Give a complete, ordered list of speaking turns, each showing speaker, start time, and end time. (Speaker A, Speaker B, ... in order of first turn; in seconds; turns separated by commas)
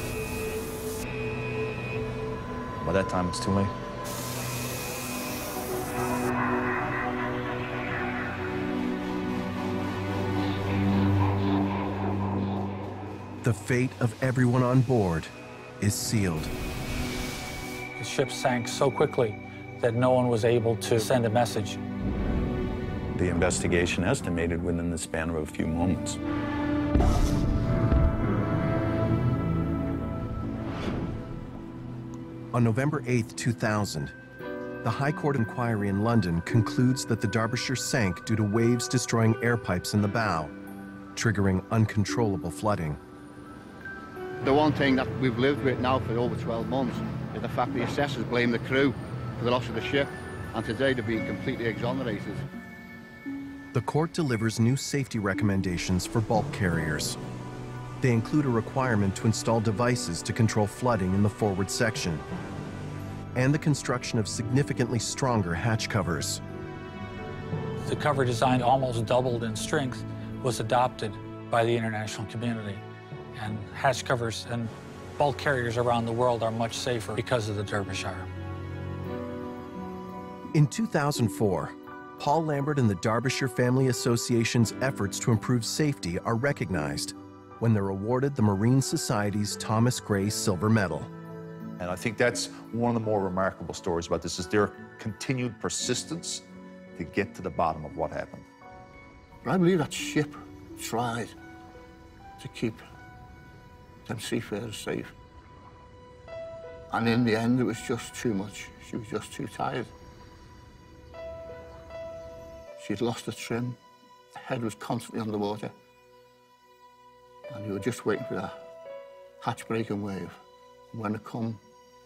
Speaker A: 2.8-3.7, Speaker B: 13.4-16.5, Speaker C: 17.9-21.8, Speaker D: 23.1-26.2, Speaker B: 32.5-34.1, Speaker B: 34.8-40.5, Speaker B: 41.1-43.0, Speaker E: 44.4-52.4, Speaker B: 53.7-57.2, Speaker B: 58.0-62.2, Speaker B: 63.3-66.4, Speaker C: 67.8-72.8, Speaker C: 73.3-78.3, Speaker B: 80.5-91.1, Speaker A: 91.8-96.4, Speaker A: 97.0-98.4, Speaker F: 99.4-101.3, Speaker F: 102.4-102.8, Speaker F: 104.0-105.1, Speaker F: 106.9-109.9, Speaker F: 112.8-113.8, Speaker F: 114.3-115.7, Speaker F: 117.5-118.5, Speaker F: 119.4-120.3, Speaker F: 120.9-121.6